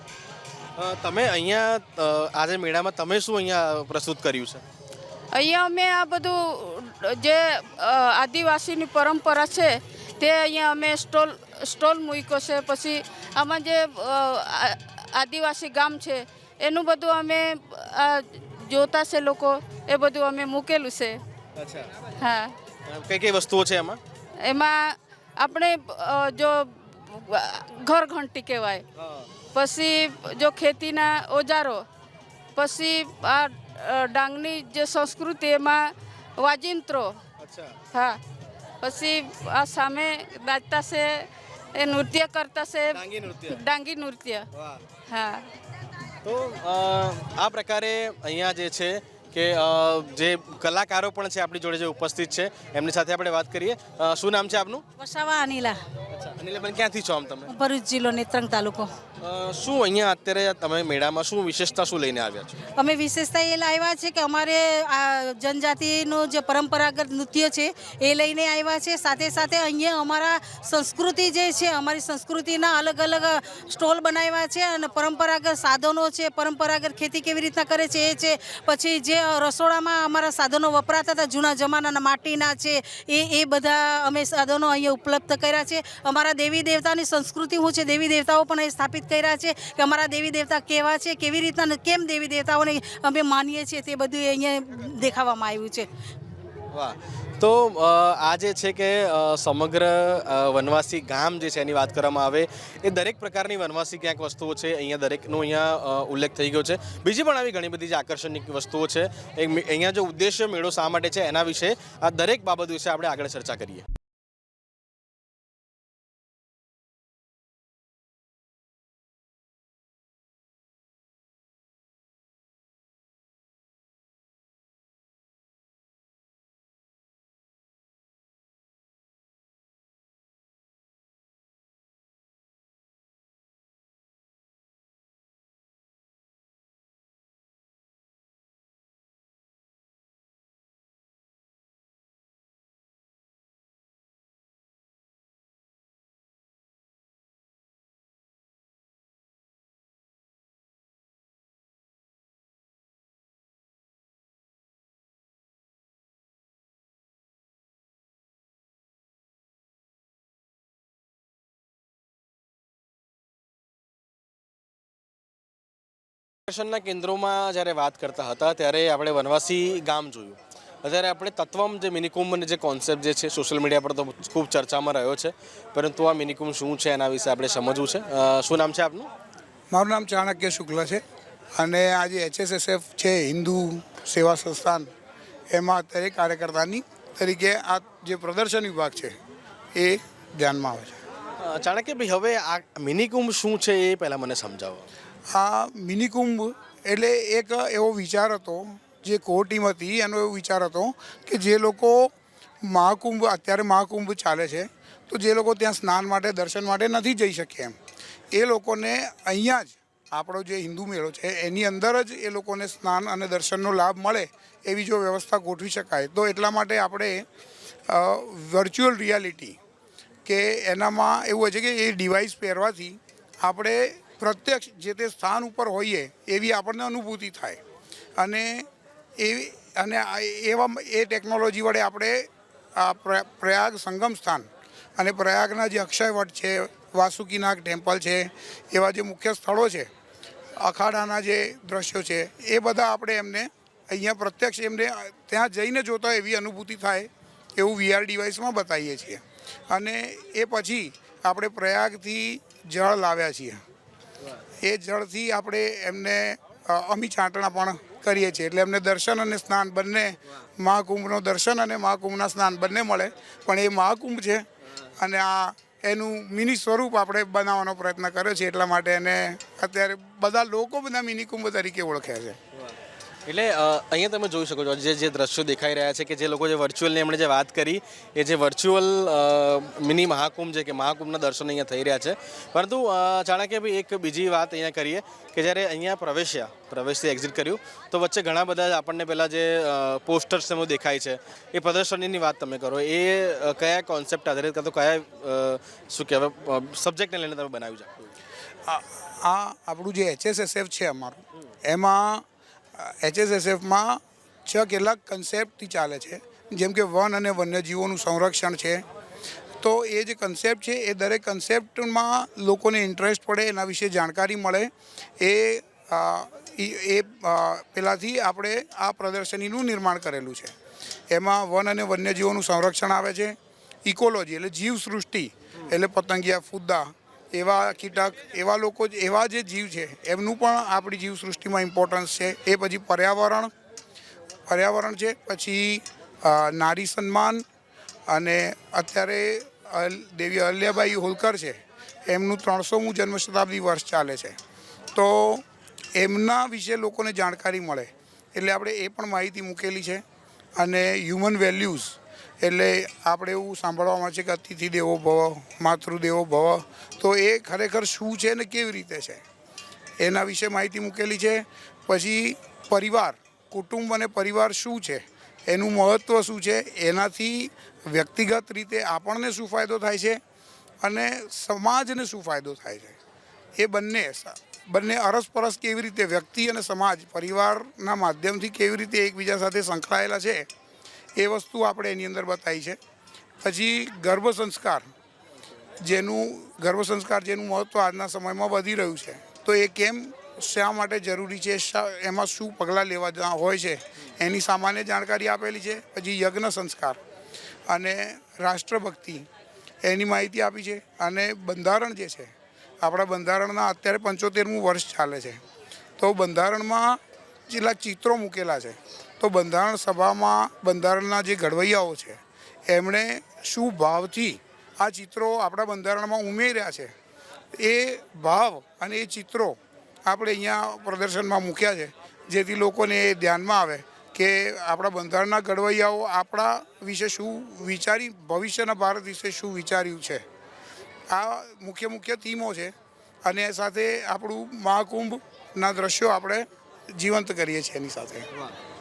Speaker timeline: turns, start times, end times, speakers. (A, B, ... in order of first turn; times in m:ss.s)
0:00.8-0:04.6 A
0:05.3-0:21.2 B
0:21.6-0:21.9 A
0:22.2-0:22.6 B
0:22.9-0:24.0 A
0:24.4-0:28.8 B
0:29.0-0:29.3 A
0:29.5-0:31.9 B
0:32.6-0:37.2 B
0:37.4-0:37.8 A
0:37.9-0:38.2 B
0:38.8-0:44.5 B
0:42.9-0:43.6 A
0:44.5-0:44.8 A
0:45.1-0:45.5 B
0:46.2-0:54.8 A
0:55.0-0:55.8 C
0:56.1-0:57.5 A
0:57.5-0:58.9 C
0:59.2-1:02.6 A
1:02.8-1:35.9 C
1:36.7-1:53.9 A
2:46.5-2:59.1 A
2:59.7-3:01.0 D
3:01.6-3:04.9 D
3:05.5-3:09.2 D
3:09.7-3:11.0 D
3:11.4-3:14.9 A
3:15.3-3:22.1 D
3:22.6-3:27.8 D
3:28.3-3:37.2 D
3:37.9-3:39.6 D
3:40.3-3:47.6 D
3:48.2-3:48.7 D
3:49.2-3:59.9 D
4:00.6-4:13.6 D
4:14.6-4:24.5 D
4:25.0-4:32.4 D
4:33.3-4:58.1 A
4:58.7-5:02.2 D
5:02.8-5:08.8 D
5:09.6-5:20.6 D
5:21.1-5:33.5 D
5:34.5-5:37.4 D
5:38.1-5:44.4 D
5:44.9-5:45.4 D
5:46.0-5:50.0 D
5:50.6-5:59.2 D
6:00.0-6:10.2 D
6:10.8-6:13.0 D
6:13.6-6:20.5 D
6:21.2-6:22.8 D
6:23.4-6:24.9 D
6:25.8-6:37.0 D
6:37.7-6:39.3 D
6:39.8-6:45.4 D
6:46.0-6:56.9 D
6:57.6-7:10.2 D
7:11.1-7:12.7 D
7:13.2-7:18.3 D